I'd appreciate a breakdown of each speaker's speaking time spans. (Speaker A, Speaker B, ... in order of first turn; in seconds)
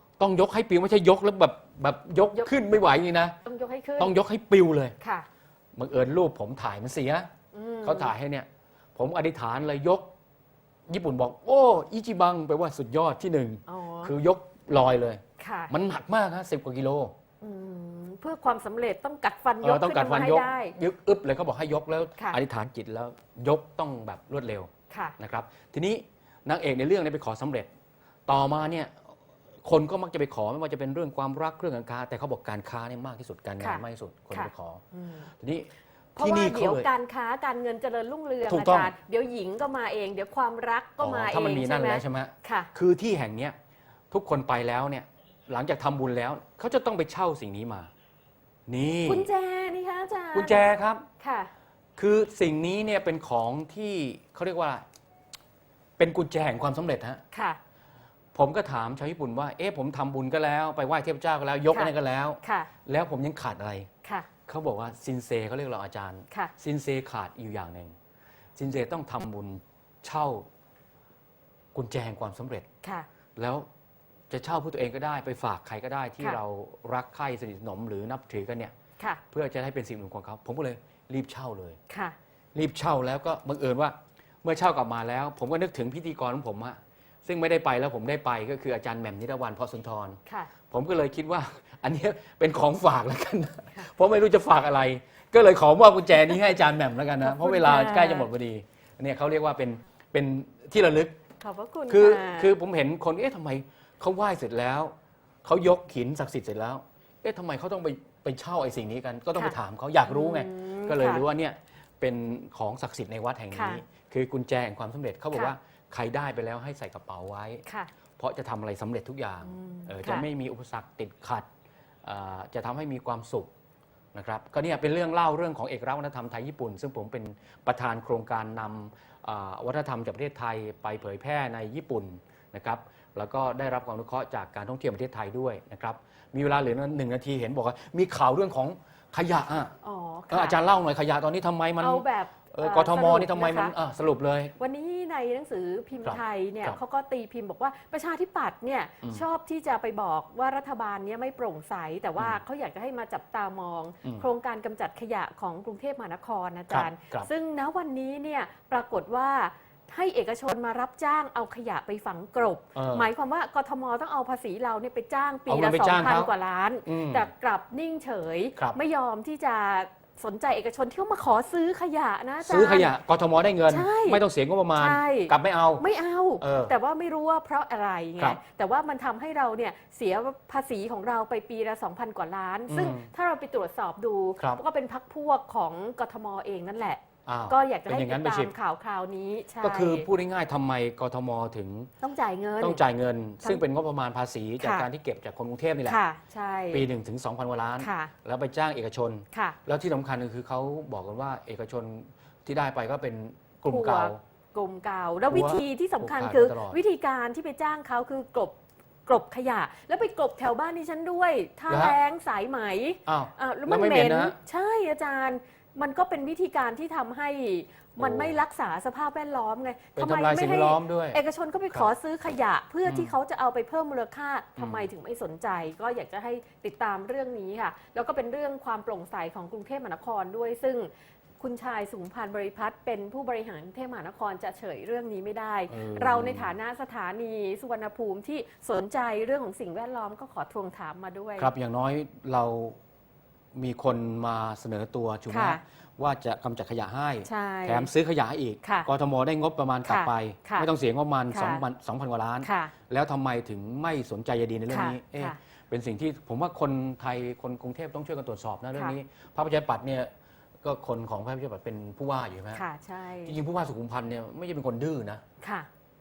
Speaker A: 0.2-3.4, 4.0-5.0, 5.8-7.3, 7.8-10.1, 10.9-17.1, 19.6-27.7, 28.3-29.1, 29.6-34.8, 35.4-36.9, 38.5-38.9, 41.0-43.6, 44.1-47.9, 48.7-49.3, 50.3-51.1, 52.0-54.8, 56.0-57.2, 58.3-63.9, 64.5-68.0, 68.6-70.5, 71.8-72.7, 73.4-73.7, 74.3-78.8, 79.3-81.8, 82.5-101.2, 101.9-117.6, 118.2-121.5, 122.0-123.5, 124.1-139.8, 140.3-144.5, 146.0-146.8, 156.7-157.3, 162.7-163.1, 165.5-166.3, 166.8-167.3, 172.4-175.8, 176.4-176.7, 182.7-183.1, 187.2-188.5, 189.6-191.9, 192.6-196.0, 196.7-204.2, 205.3-206.8, 211.7-212.0, 213.1-214.3, 218.0-218.4, 219.9-221.9, 222.8-223.1, 224.6-224.9, 235.7-236.6, 241.4-242.8, 243.5-260.1, 260.6-262.6, 263.2-265.2
Speaker B: 3.4-4.1, 5.0-5.3, 7.5-8.1, 13.7-14.1, 15.4-15.7, 17.4-20.8, 24.9-25.1, 33.6-35.3, 36.1-42.7, 49.0-50.7, 51.2-51.5, 57.3-57.6, 61.7-62.7, 64.0-64.3, 81.9-82.2, 90.2-90.5, 97.2-98.3, 101.4-102.5, 110.1-111.2, 113.5-113.8, 117.7-117.9, 119.4-120.3, 139.8-140.6, 141.8-143.8, 144.6-172.9, 173.7-174.2, 174.8-190.1, 192.0-192.8, 194.6-194.9, 195.8-196.9, 197.8-198.1, 199.3-199.6, 203.7-208.6, 209.1-241.5, 245.3-245.6, 247.2-247.9, 248.6-248.9, 249.8-250.7, 251.3-251.6, 252.4-252.7, 254.7-255.4, 262.5-263.4, 265.4-265.7